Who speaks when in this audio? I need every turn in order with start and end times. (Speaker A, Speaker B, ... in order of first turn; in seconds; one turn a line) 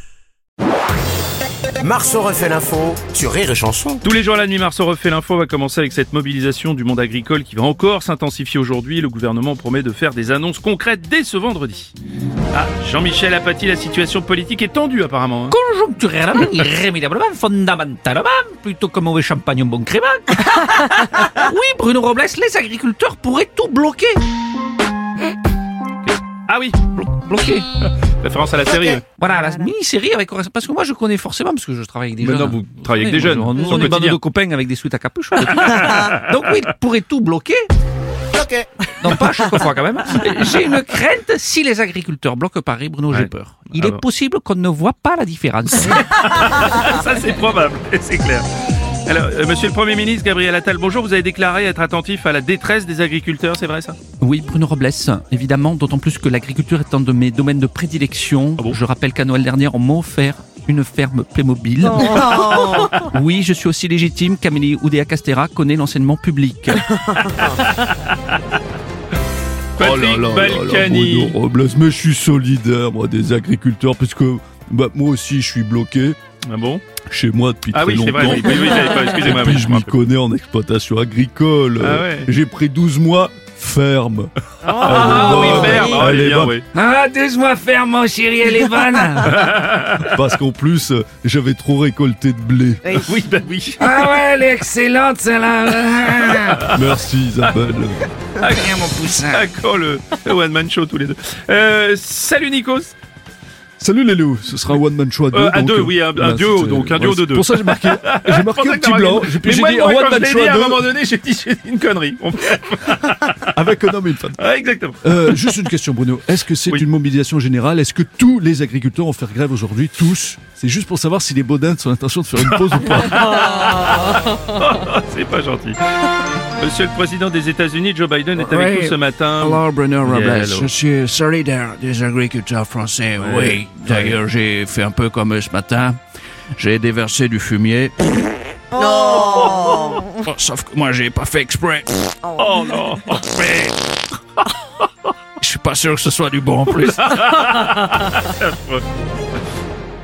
Speaker A: 1.8-4.0
Speaker B: 4.0-11.9
Speaker B: 12.5-15.6
Speaker C: 15.5-24.2
Speaker B: 26.5-26.9
Speaker C: 26.9-27.6
Speaker B: 27.8-29.0
Speaker C: 29.2-37.7
Speaker B: 32.2-34.2
Speaker B: 35.4-36.4
Speaker A: 38.4-38.7
Speaker C: 39.0-46.1
Speaker B: 43.1-44.0
Speaker B: 45.8-48.5
Speaker B: 49.0-54.0
Speaker C: 54.2-66.9
Speaker B: 62.0-63.0
Speaker B: 67.0-68.4
Speaker B: 69.8-71.4
Speaker D: 69.8-76.2
Speaker B: 76.5-76.8
Speaker D: 77.0-86.6
Speaker B: 77.7-80.0
Speaker B: 81.8-82.3
Speaker B: 84.7-86.7
Speaker E: 84.8-85.8
Speaker C: 85.0-85.8
Speaker C: 86.8-89.4
Speaker E: 86.8-88.2
Speaker B: 89.2-90.2
Speaker D: 90.0-93.1
Speaker B: 93.0-94.0
Speaker C: 93.8-96.6
Speaker E: 94.0-96.4
Speaker B: 96.3-96.8
Speaker D: 96.6-98.0
Speaker B: 98.4-102.9
Speaker C: 98.5-99.4
Speaker D: 103.8-110.9
Speaker B: 105.3-113.6
Speaker D: 113.5-114.4
Speaker B: 114.4-115.5
Speaker D: 115.0-123.4
Speaker B: 122.4-130.7
Speaker C: 128.4-128.6
Speaker E: 128.6-129.0
Speaker E: 129.5-136.0
Speaker C: 130.1-130.6
Speaker B: 133.2-134.2
Speaker E: 136.6-138.0
Speaker B: 138.8-140.0
Speaker E: 138.8-141.9
Speaker B: 142.3-143.6
Speaker E: 145.4-147.1
Speaker C: 145.4-147.1
Speaker B: 146.7-148.8